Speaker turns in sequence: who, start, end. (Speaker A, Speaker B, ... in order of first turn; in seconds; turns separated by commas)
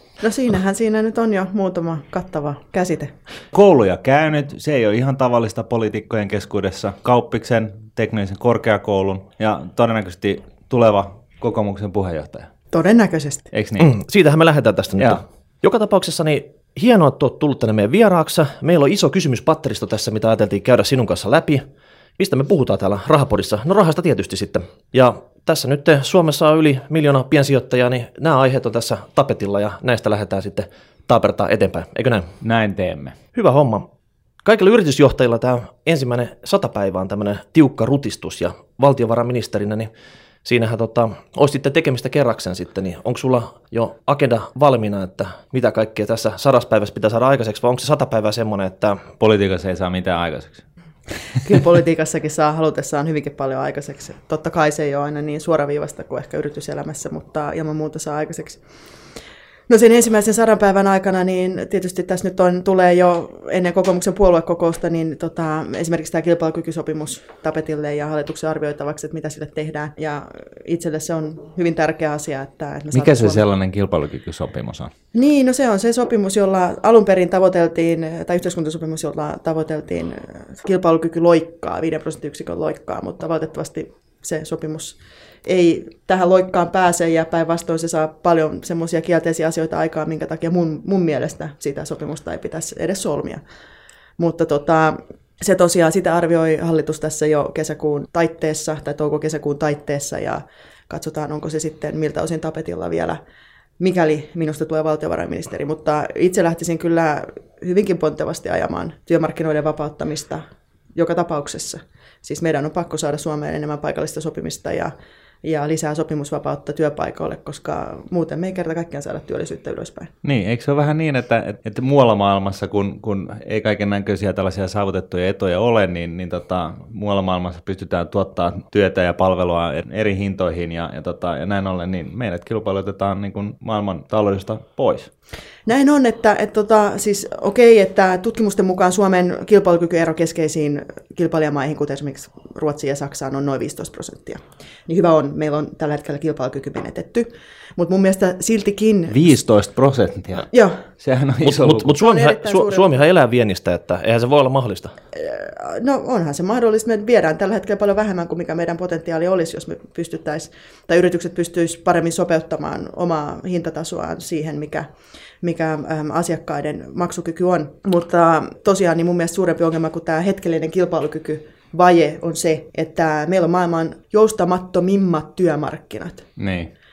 Speaker A: 0.2-3.1, Speaker B: 3.5-12.5, Speaker A: 12.7-13.5, Speaker B: 13.5-13.9, Speaker C: 13.8-21.6, Speaker C: 22.2-32.3, Speaker B: 32.4-33.2, Speaker C: 33.3-33.9, Speaker C: 34.4-39.9, Speaker C: 40.4-49.1, Speaker B: 49.2-50.6, Speaker A: 51.4-58.6, Speaker A: 59.7-73.4, Speaker B: 72.9-74.9, Speaker A: 75.1-93.4, Speaker A: 94.2-103.2, Speaker A: 103.8-120.1, Speaker B: 120.2-135.1, Speaker A: 135.7-149.3, Speaker B: 149.1-150.5, Speaker A: 150.5-150.8, Speaker B: 151.0-151.9, Speaker C: 151.4-154.9, Speaker A: 151.9-152.9, Speaker A: 155.1-164.9, Speaker A: 165.4-176.2, Speaker B: 176.4-176.7